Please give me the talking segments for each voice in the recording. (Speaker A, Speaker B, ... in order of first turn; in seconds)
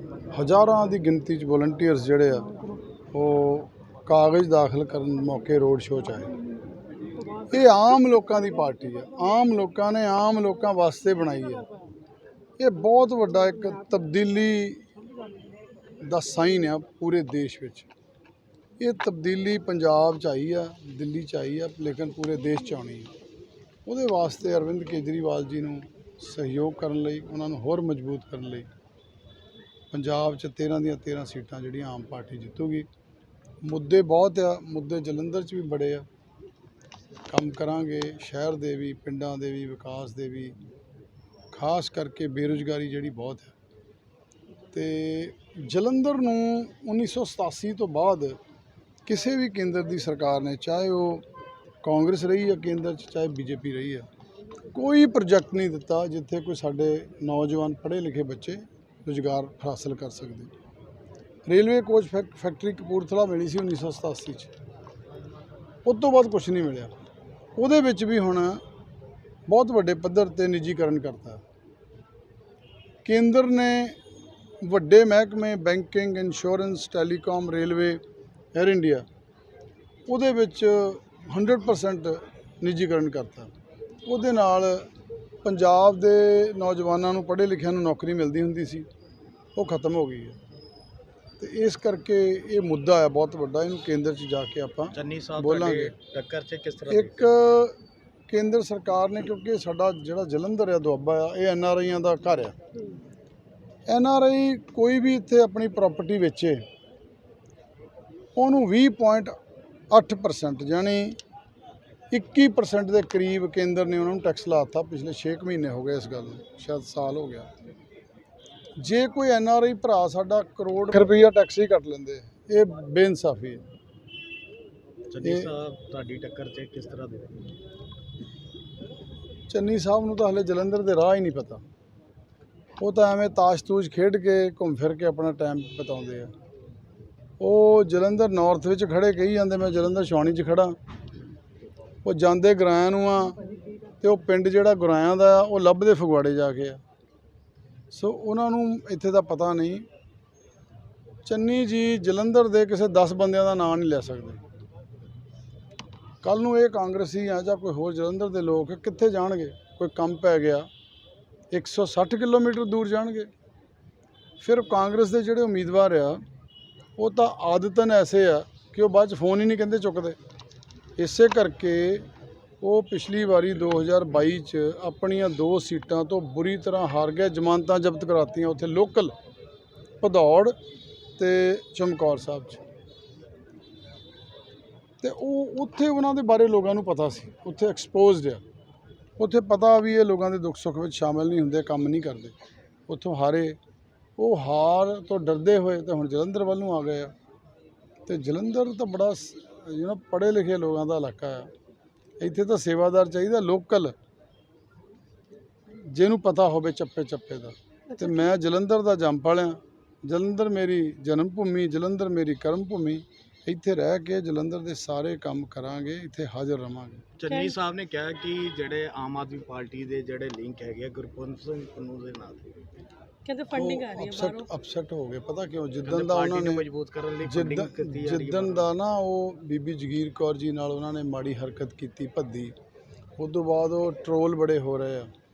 Speaker A: 0.3-2.5, 3.1-6.3, 7.5-11.7, 12.6-14.8, 16.0-17.9, 18.8-23.1, 23.9-28.7, 29.9-32.9, 33.6-36.1, 37.3-40.5, 41.5-43.5, 44.7-48.4, 49.0-51.2, 51.8-54.1, 54.7-60.5, 61.5-64.5, 65.8-66.9, 67.6-68.6, 69.5-71.4, 73.0-74.0, 74.6-78.0, 78.5-79.0, 80.1-83.5, 84.0-84.9, 85.4-88.9, 89.5-90.4, 91.4-95.9, 96.9-97.8, 98.3-102.5, 103.9-106.6, 108.3-109.3, 109.9-111.2, 112.1-117.5, 118.8-123.6, 125.2-125.5, 129.5-131.6, 132.8-136.3, 137.4-140.8, 142.0-143.4, 144.0-146.8, 147.9-149.9, 151.2-154.4, 156.2-160.7, 161.5-163.3, 164.4-166.2, 167.0-170.2, 171.0-172.1, 172.6-179.2, 180.0-180.6, 181.2-182.6, 185.0-188.4, 189.2-192.4, 192.9-193.6, 194.2-197.1, 198.1-201.5, 202.2-203.9, 205.9-217.0, 223.5-226.6, 227.2-232.5, 233.2-235.1
Speaker B: 94.9-97.3, 125.1-127.5, 217.2-222.6, 225.8-228.7
Speaker C: 207.9-208.4, 217.3-217.6, 223.2-224.5